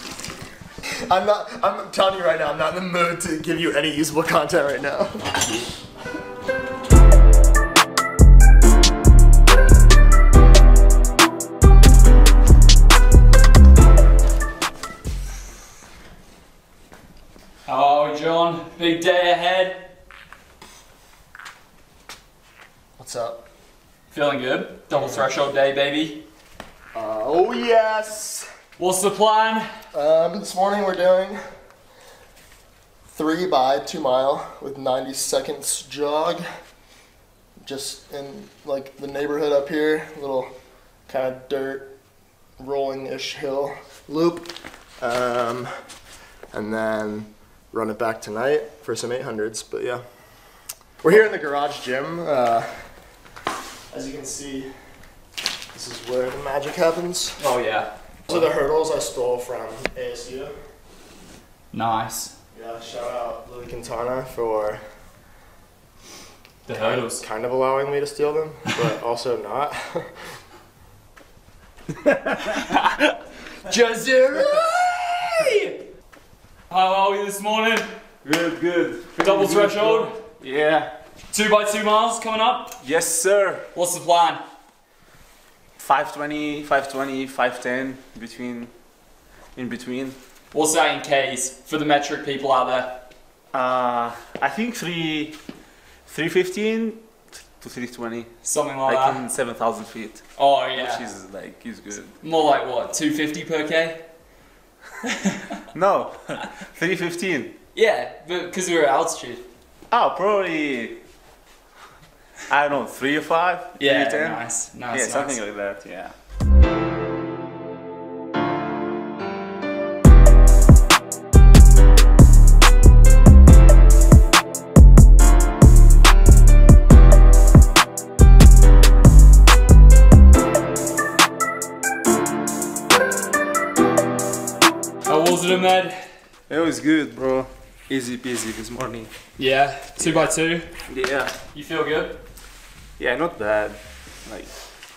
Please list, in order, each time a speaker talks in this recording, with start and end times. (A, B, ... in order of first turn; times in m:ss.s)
0:01.1-0:05.2 A
0:17.6-0:19.9 B
0:23.0-0:23.5 A
0:24.1-0:26.2 B
0:25.0-0:25.2 A
0:26.9-0:28.5 A
0:28.8-0:29.7 B
0:29.9-0:31.4 A
0:33.1-0:36.4 A
0:37.6-0:40.5 A
0:41.1-0:41.9 A
0:42.6-0:45.7 A
0:46.5-0:50.0 A
0:51.0-0:52.8 A
0:53.9-0:54.7 A
0:55.7-0:57.4 A
0:57.4-0:57.9 B
0:58.3-1:00.5 A
1:01.7-1:02.3 B
1:02.5-1:04.8 A
1:06.7-1:07.2 B
1:06.7-1:10.2 A
1:12.5-1:15.8 B
1:16.7-1:17.9 B
1:18.2-1:20.9 C
1:19.2-1:20.2 B
1:21.3-1:22.8 B
1:22.8-1:23.7 C
1:23.7-1:24.4 B
1:25.8-1:28.7 C
1:29.6-1:30.2 C
1:30.5-1:33.0 B
1:33.5-1:35.4 C
1:36.1-1:38.3 C
1:38.4-1:39.2 B
1:38.8-1:42.1 C
1:40.4-1:41.0 B
1:42.2-1:44.0 B
1:45.3-1:45.6 B
1:45.7-1:47.5 C
1:47.8-1:49.4 B
1:49.9-1:51.0 C
1:52.5-1:56.1 C
1:53.8-1:55.4 B
2:15.0-2:16.0 B
2:16.5-2:19.1 C
2:19.4-2:20.7 B
2:20.9-2:21.3 C
2:21.5-2:22.2 B
2:23.0-2:24.5 C